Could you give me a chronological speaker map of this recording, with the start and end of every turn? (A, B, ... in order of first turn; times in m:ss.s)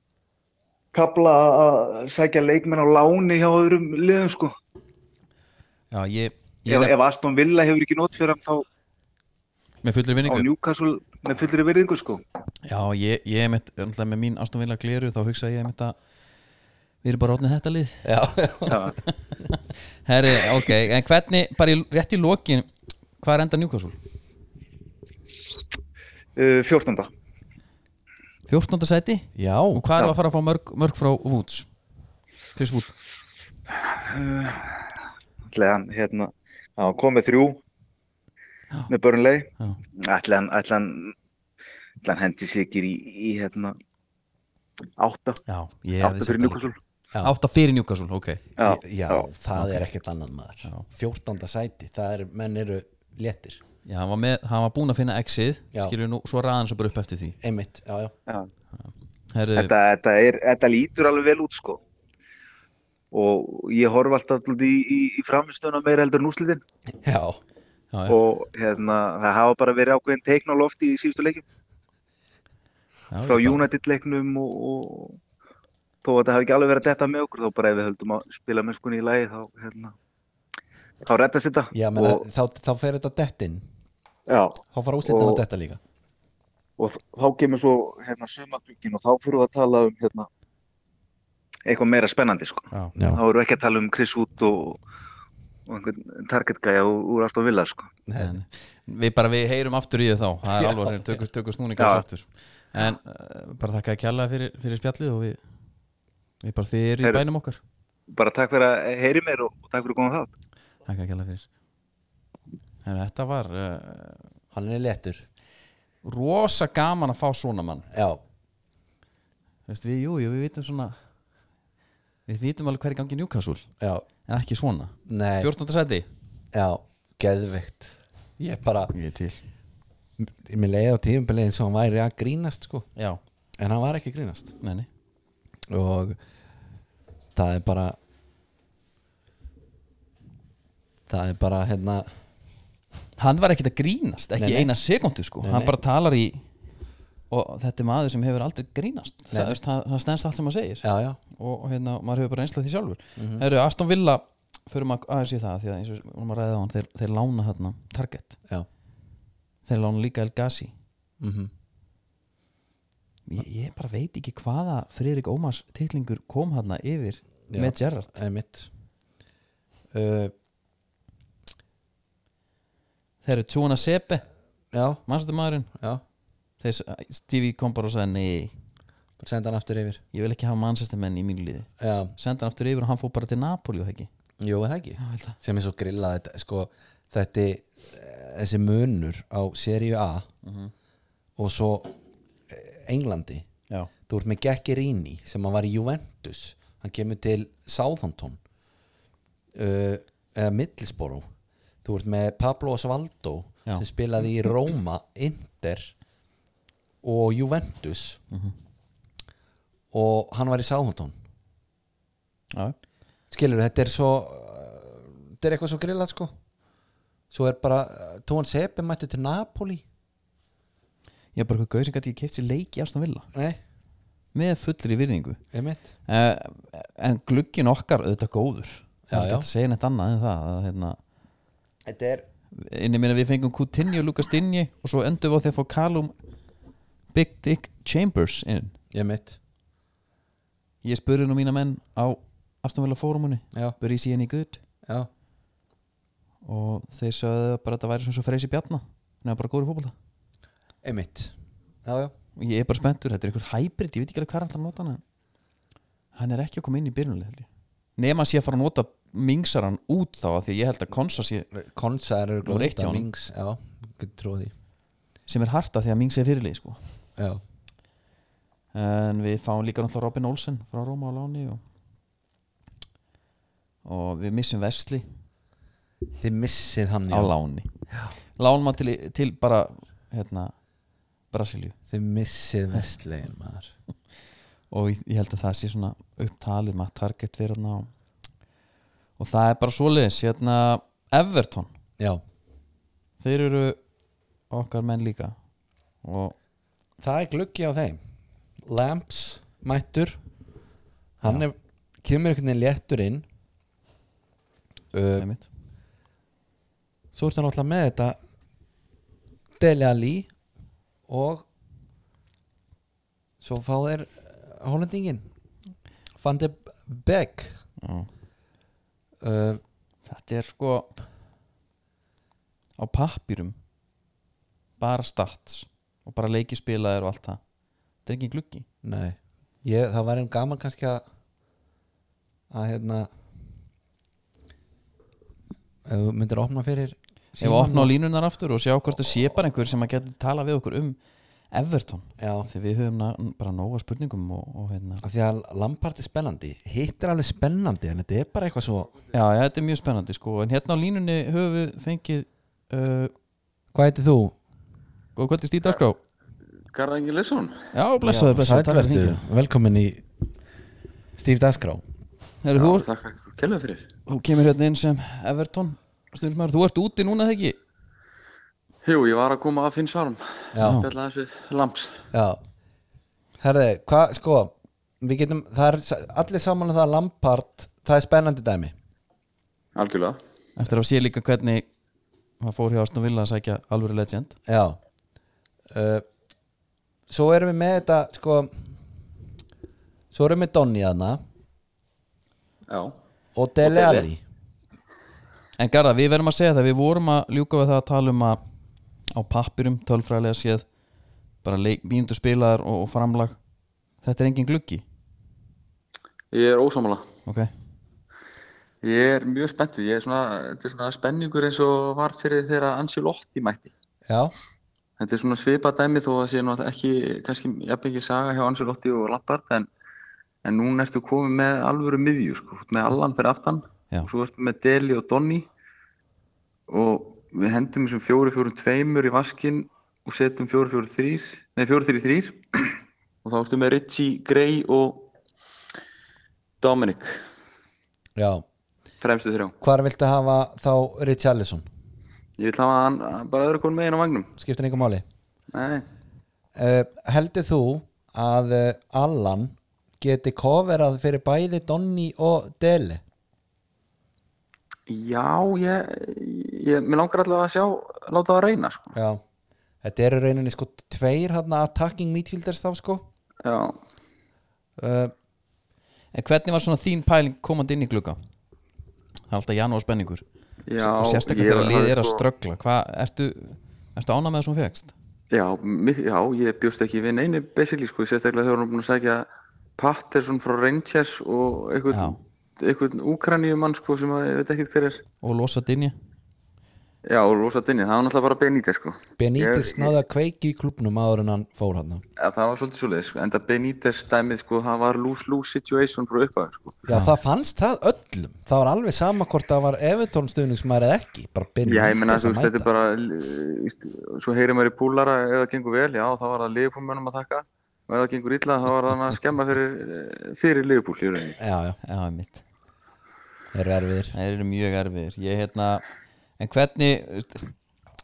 0:00.9-0:04.5 A
0:05.9-0:06.9 B
0:06.7-0:08.6 A
0:09.8-0:10.5 B
0:10.2-0:12.2 A
0:12.6-0:16.0 B
0:17.0-0:18.0 B
0:18.0-0:18.8 C
0:18.7-0:19.0 A
0:19.0-0:24.0 B
0:26.4-0:27.1 A
0:28.5-0:31.7 B
0:29.3-0:29.8 C
0:32.6-0:32.9 B
0:33.9-0:34.8 A
0:35.5-0:37.6 A
0:38.9-0:41.1 A
0:42.0-0:43.8 A
0:45.0-0:45.4 A
0:45.5-0:46.7 B
0:46.0-0:46.8 A
0:47.2-0:48.4 B
0:48.6-0:49.3 A
0:48.6-0:53.6 C
0:49.5-0:49.8 B
0:53.8-0:57.4 B
0:57.4-0:58.1 C
0:58.8-0:59.7 B
0:59.6-1:01.8 A
1:03.1-1:06.6 A
1:07.0-1:07.4 C
1:07.9-1:08.2 B
1:08.1-1:11.4 A
1:13.1-1:13.6 B
1:13.2-1:15.2 A
1:16.0-1:19.9 A
1:21.0-1:22.2 A
1:21.7-1:23.6 C
1:24.3-1:25.4 A
1:24.7-1:25.8 C
1:26.8-1:30.3 A
1:31.6-1:34.8 A
1:33.0-1:33.2 C
1:35.7-1:37.9 A
1:38.1-1:38.4 C
1:38.2-1:45.4 B
1:41.8-1:42.0 A
1:46.4-1:47.6 B
1:48.1-1:50.3 A
1:50.8-1:51.5 B
1:52.8-1:54.3 B
1:54.5-1:55.2 C
1:56.0-1:57.8 B
1:57.9-1:58.2 C
1:59.7-2:01.0 B
2:02.3-2:03.7 B
2:03.8-2:04.0 C
2:04.2-2:06.1 B
2:05.0-2:05.5 C
2:06.5-2:08.9 C
2:08.9-2:09.4 B
2:10.2-2:12.9 C
2:13.6-2:14.5 C
2:14.6-2:14.9 B
2:15.7-2:16.2 C
2:17.3-2:18.0 C
2:21.1-2:22.1 C
2:23.2-2:26.4 B
2:24.4-2:24.7 C
2:25.4-2:25.7 C
2:27.3-2:38.4 B
2:29.3-2:29.6 C
2:30.8-2:31.2 C
2:33.2-2:33.4 C
2:39.6-2:40.7 B
2:41.2-2:41.5 C
2:43.2-2:48.1 B
2:47.5-2:48.7 C
2:49.9-2:50.3 C
2:53.2-2:54.2 B
2:54.7-2:55.0 C
2:55.0-2:55.7 B
2:55.7-2:56.0 C
2:56.6-2:58.5 B
2:59.2-3:00.0 C
3:00.1-3:04.1 B
3:01.8-3:02.1 C
3:04.4-3:10.3 C
3:05.0-3:05.4 B
3:10.4-3:10.7 B
3:11.4-3:11.9 C
3:12.5-3:13.4 C
3:14.1-3:18.4 C
3:19.5-3:21.2 C
3:21.8-3:25.9 C
3:27.0-3:28.2 C
3:29.9-3:31.2 C
3:33.3-3:36.3 C
3:37.3-3:39.8 C
3:41.3-3:43.3 B
3:43.3-3:43.6 C
3:44.3-3:45.4 B
3:45.5-3:45.9 C
3:46.1-3:51.0 B
3:49.1-3:49.5 C
3:51.8-3:52.2 C
3:52.6-3:56.1 B
3:57.1-3:58.8 B
3:58.9-3:59.4 C
4:00.8-4:04.6 B
4:06.4-4:09.9 B
4:10.8-4:11.3 C
4:11.8-4:12.1 C
4:12.4-4:15.0 B
4:16.1-4:21.5 B
4:21.5-4:24.5 C
4:22.4-4:23.1 B
4:25.3-4:26.8 B
4:27.2-4:27.4 C
4:28.7-4:31.6 B
4:33.8-4:35.1 B
4:36.2-4:37.3 C
4:37.1-4:37.7 B
4:38.4-4:40.5 B
4:41.3-4:41.8 B
4:41.9-4:43.7 C
4:44.7-4:47.9 B
4:49.2-4:51.7 B
4:53.2-4:53.8 B
4:54.5-4:55.4 B
4:56.0-4:56.3 B
4:57.0-4:58.0 C
4:58.6-5:00.2 C
5:01.2-5:03.2 C
5:04.9-5:05.3 C
5:05.2-5:05.5 B
5:07.1-5:08.2 C
5:09.6-5:10.3 C
5:11.1-5:11.4 C
5:13.4-5:15.2 C
5:16.2-5:17.6 C
5:17.8-5:18.1 B
5:19.2-5:19.6 C
5:20.0-5:20.9 B
5:22.8-5:23.6 B
5:24.8-5:27.4 B
5:28.0-5:28.7 B
5:28.8-5:31.0 C
5:32.5-5:33.1 C
5:35.8-5:37.9 C
5:37.4-5:41.0 B
5:41.5-5:45.0 B
5:42.2-5:42.5 C
5:45.0-5:48.9 C
5:49.1-5:53.1 B
5:53.7-5:54.4 C
5:55.2-5:56.0 B
5:56.7-5:57.7 D
5:57.7-5:59.2 B
5:58.0-6:00.0 C
6:01.2-6:01.8 C
6:02.4-6:02.9 B
6:02.6-6:03.9 D
6:04.1-6:07.6 B
6:08.8-6:12.0 D
6:10.5-6:10.8 C
6:10.6-6:10.9 B
6:12.1-6:12.4 C
6:13.4-6:18.7 C
6:19.7-6:20.2 D
6:20.6-6:21.6 B
6:22.4-6:24.4 B
6:24.5-6:24.8 C
6:25.7-6:26.0 C
6:27.1-6:28.6 C
6:30.1-6:31.2 C
6:32.7-6:33.0 D
6:33.3-6:34.2 C
6:33.6-6:34.1 D
6:35.6-6:38.4 B
6:39.1-6:40.6 B
6:41.4-6:43.4 B
6:44.0-6:44.8 B
6:46.3-6:47.1 D
6:48.8-6:53.7 D
6:54.0-6:54.3 C
6:55.0-6:59.7 D
7:00.4-7:05.5 D
7:06.7-7:15.1 D
7:16.6-7:17.2 D
7:18.2-7:18.4 C
7:19.0-7:19.5 D
7:19.6-7:21.6 C
7:22.4-7:24.3 D
7:24.4-7:25.0 C
7:25.5-7:25.8 D
7:26.6-7:33.0 C
7:34.9-7:38.9 D
7:38.9-7:39.2 C
7:39.8-7:43.1 C
7:43.4-7:43.8 D
7:44.8-7:45.1 C
7:46.1-7:48.2 B
7:49.3-7:50.2 B
7:50.7-7:52.2 D
7:50.8-7:54.9 B
7:55.3-8:05.0 D
8:01.9-8:02.2 B
8:05.2-8:06.0 B
8:07.0-8:09.9 D
8:09.2-8:12.0 C
8:12.2-8:16.8 D
8:16.8-8:22.7 C
8:16.9-8:17.1 B
8:21.6-8:31.4 D
8:31.4-8:31.8 C
8:31.8-8:32.4 B
8:33.5-8:34.1 C
8:34.1-8:35.8 B
8:36.4-8:37.5 B